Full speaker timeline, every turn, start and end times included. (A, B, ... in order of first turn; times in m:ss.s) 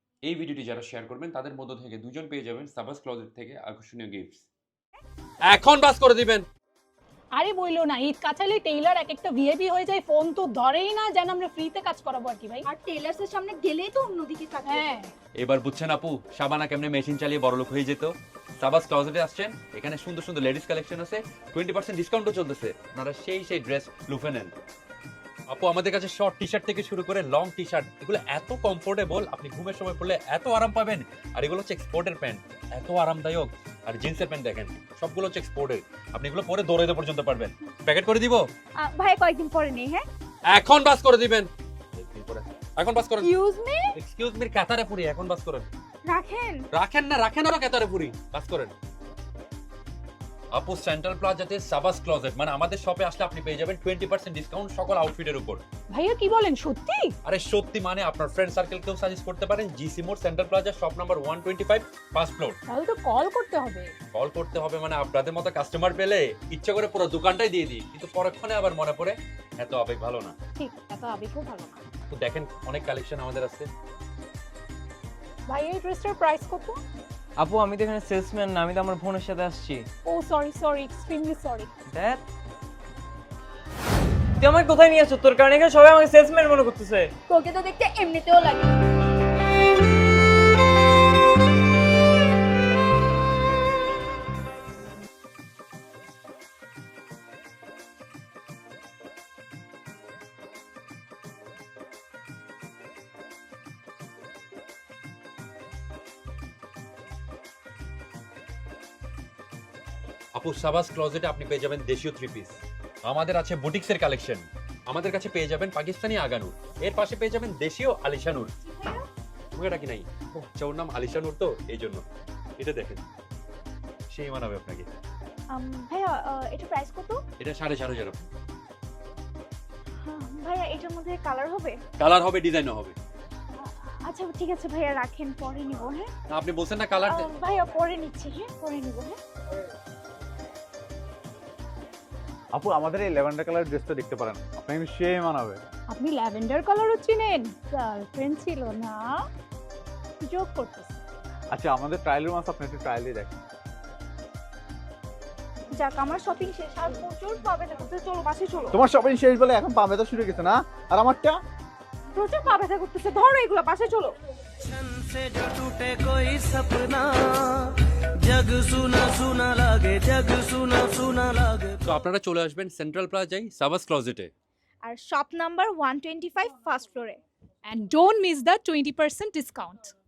0:00.2-0:04.4 A
0:05.5-0:06.4 A
0:07.4-0:12.7 B
0:12.6-0:15.0 C
0:14.6-0:15.1 B
0:15.4-0:24.5 A
0:25.5-0:38.4 A
0:38.8-0:40.0 C
0:40.5-0:43.3 A
0:43.3-0:43.7 B
0:43.5-0:43.8 C
0:44.0-0:45.7 A
0:46.0-0:46.7 C
0:46.7-0:48.7 A
0:50.5-0:55.6 A
0:55.9-0:57.1 B
0:57.2-1:02.6 A
1:02.7-1:03.9 B
1:04.1-1:10.4 A
1:10.6-1:11.9 B
1:12.1-1:13.7 A
1:15.5-1:16.8 B
1:17.4-1:19.8 D
1:20.0-1:21.7 B
1:21.9-1:22.2 D
1:24.4-1:27.0 D
1:27.3-1:28.7 C
1:50.4-1:58.5 A
1:58.6-1:59.1 C
1:59.5-2:02.0 A
2:02.6-2:03.0 A
2:04.1-2:04.9 A
2:05.5-2:07.2 C
2:07.4-2:08.3 A
2:10.0-2:11.8 C
2:12.0-2:13.0 A
2:13.6-2:16.1 C
2:16.3-2:17.3 A
2:17.0-2:19.2 C
2:22.5-2:25.6 E
2:25.9-2:29.2 B
2:30.2-2:31.0 B
2:31.5-2:33.3 E
2:35.7-2:38.8 C
2:38.7-2:41.4 E
2:42.1-2:44.1 C
2:44.7-2:51.8 F
2:51.8-2:54.3 A
2:54.8-2:57.2 C
2:57.7-2:59.9 B